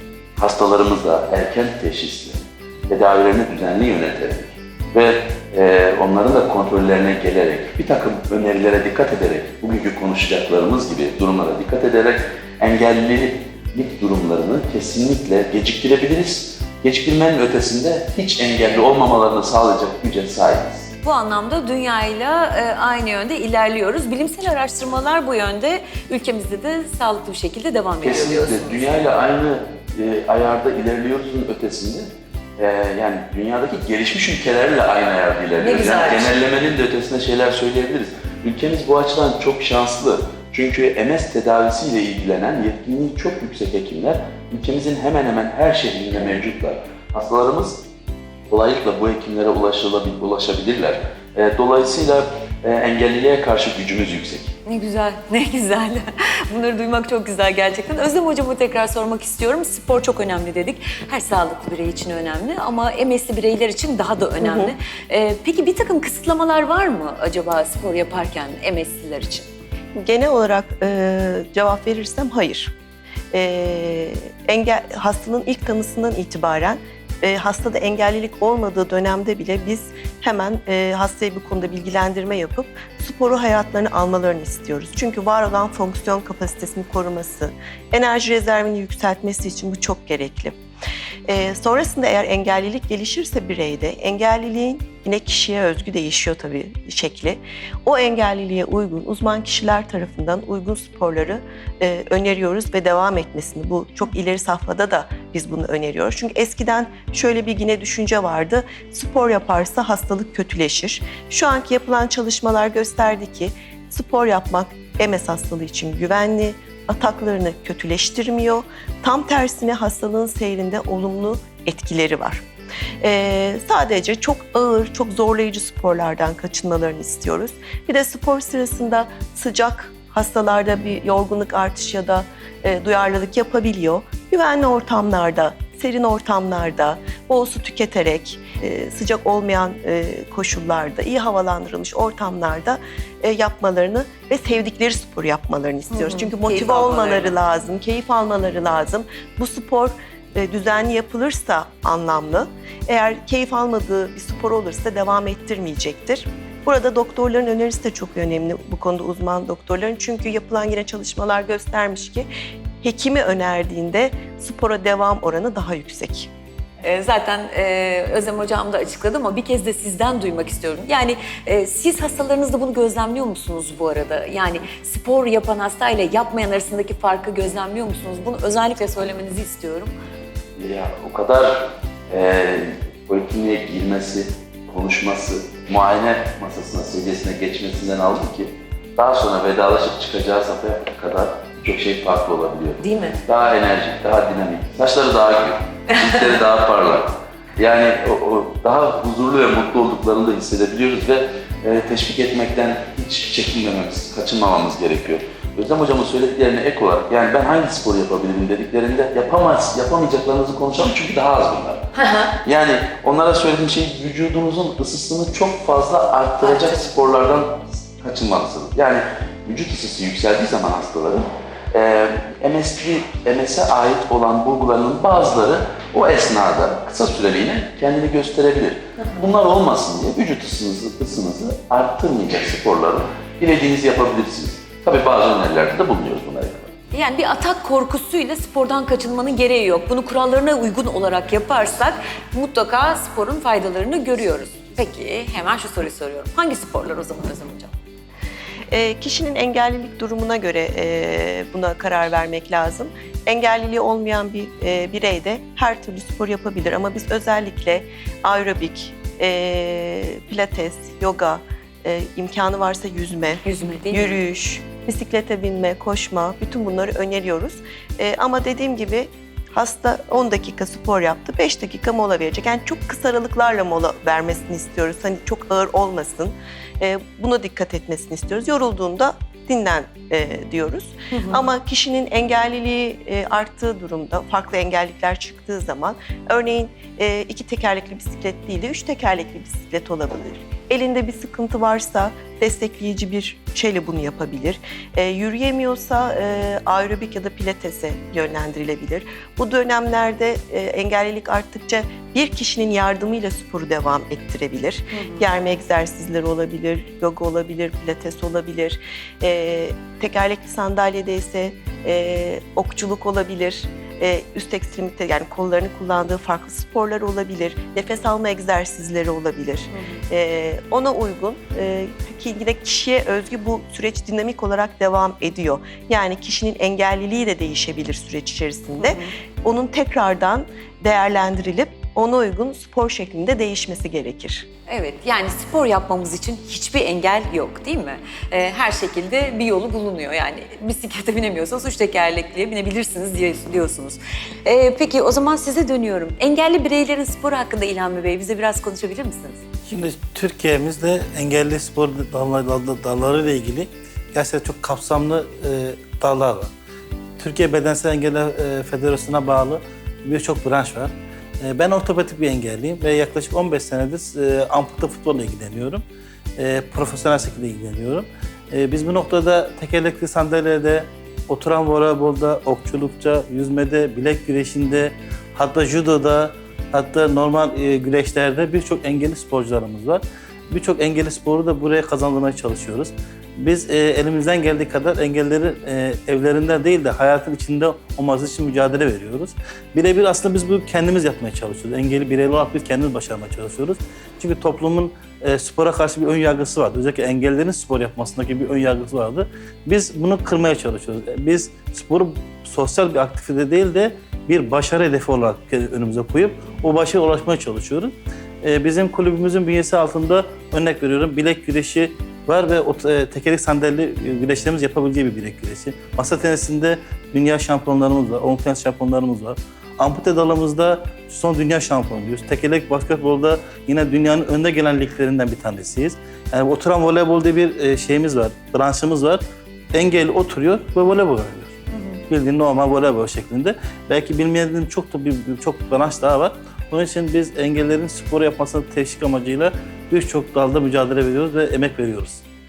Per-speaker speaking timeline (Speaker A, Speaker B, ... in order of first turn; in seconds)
Speaker A: 0.4-20.9, 28.0-47.8, 48.5-54.5, 180.6-211.8, 212.4-236.7
Speaker B: 21.0-29.1, 35.6-36.3, 54.6-69.5, 145.9-147.3, 166.8-179.9, 192.8-193.2, 195.9-196.3, 236.9-247.7, 263.4-264.2, 281.1-281.4, 304.9-305.2, 319.7-320.0, 328.8-329.1, 334.7-349.4, 431.7-432.0
Speaker C: 64.4-64.7, 69.9-72.7, 73.3-90.6, 91.3-122.4, 123.0-162.3, 162.8-166.3, 248.7-334.5
Speaker D: 349.7-356.5, 357.2-365.8, 366.4-429.2, 429.7-442.2